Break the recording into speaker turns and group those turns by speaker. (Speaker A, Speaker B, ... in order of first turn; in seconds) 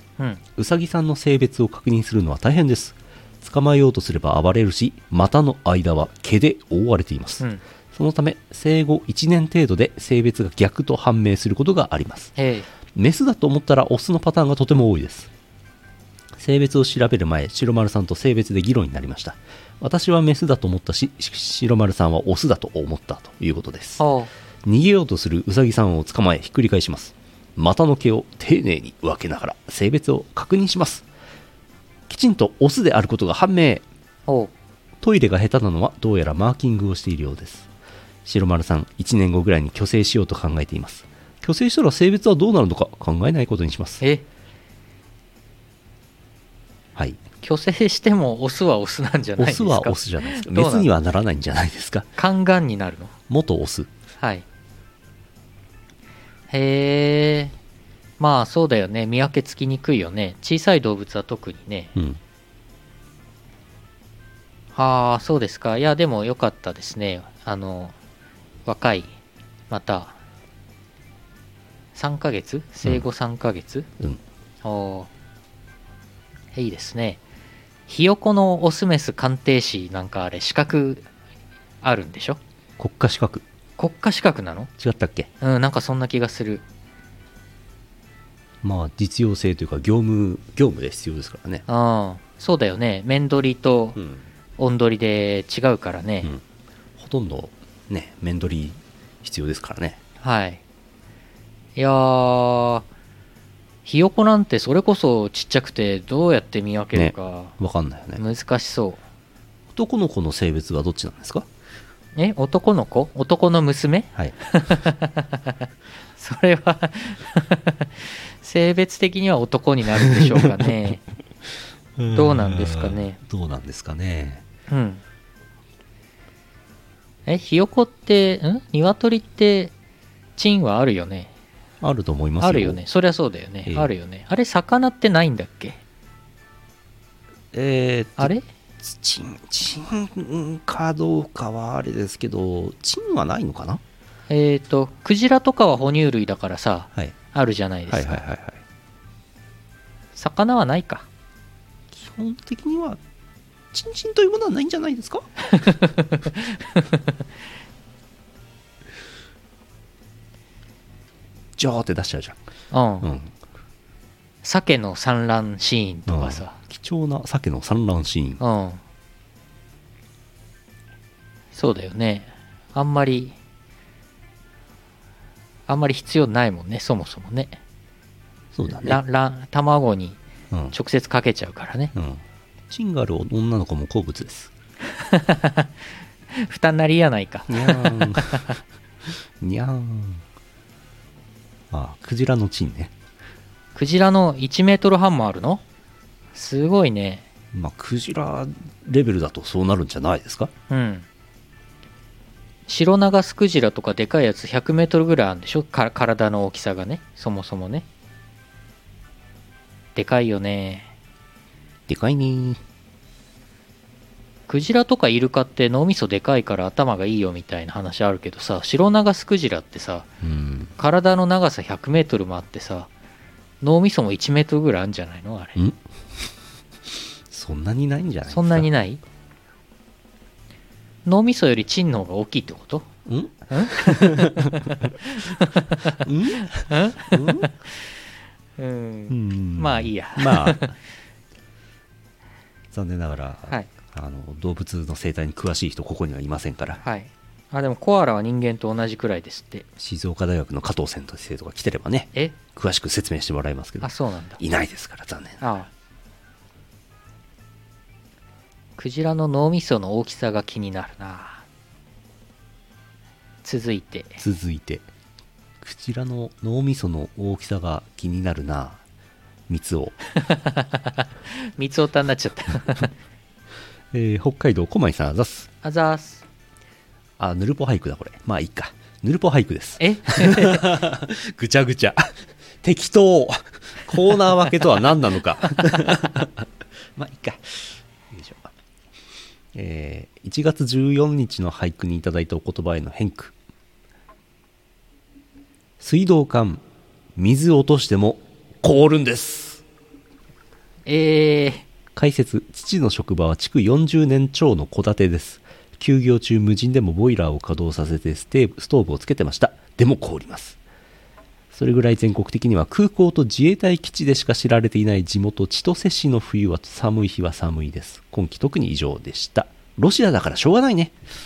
Speaker A: 0.6-12.3, 12.9-15.3, 16.4-24.0, 24.6-31.1, 32.1-33.8, 35.0-37.7, 38.2-44.0, 49.4-52.1, 53.3-53.9, 82.8-83.4, 84.8-85.3, 88.6-91.6, 94.0-94.2, 97.0-100.0, 106.9-108.2, 109.7-111.5, 120.0-120.7, 122.0-124.4, 131.8-132.8, 137.5-143.8, 147.9-148.6, 151.9-153.0, 153.7-155.3, 161.6-162.4, 163.0-163.3, 166.1-168.4, 178.5-179.0, 180.5-180.8, 181.9-184.5, 187.5-190.2, 191.7-192.9, 197.5-200.5, 211.9-212.6, 220.2-220.7, 227.3-228.7, 233.1-234.8, 236.0-237.5, 239.1-240.7, 242.7-246.8, 249.8-255.4, 264.2-264.9, 265.6-268.8, 269.5-270.0, 273.9-275.5, 277.2-288.5, 289.5-293.3, 295.8-296.6, 297.1-299.6, 301.9-310.6, 311.5-320.9
Speaker B: 12.4-12.7, 24.0-24.3, 47.4-50.9, 52.2-53.1, 56.5-57.5, 58.2-61.9, 64.7-67.9, 68.7-69.1, 69.7-70.2, 71.9-73.9, 74.6-75.1, 76.5-77.2, 77.9-81.0, 81.8-82.4, 83.8-84.7, 85.4-86.6, 91.7-94.0, 94.6-96.3, 100.2-100.6, 101.8-102.8, 103.8-107.5, 108.2-109.0, 112.2-115.6, 116.2-121.0, 122.1-123.2, 124.7-125.0, 127.2-129.7, 130.4-131.3, 132.4-135.8, 138.2-138.4, 144.3-148.2, 150.1-151.1, 155.5-156.8, 162.7-163.1, 164.4-166.6, 168.4-168.8, 171.5-173.3, 175.7-177.6, 178.8-180.2, 180.7-181.9, 184.9-185.7, 186.3-188.6, 193.7-195.6, 196.3-197.2, 200.7-201.1, 202.7-207.8, 209.9-210.9, 214.5-220.1, 220.8-222.9, 223.6-225.6, 228.3-229.0, 231.0-232.9, 233.5-237.7, 238.6-240.7, 246.8-249.7, 253.8-254.4, 255.4-255.7, 258.8-261.4, 263.4-264.2, 270.2-272.9, 275.6-276.2, 279.8-280.8, 300.9-301.6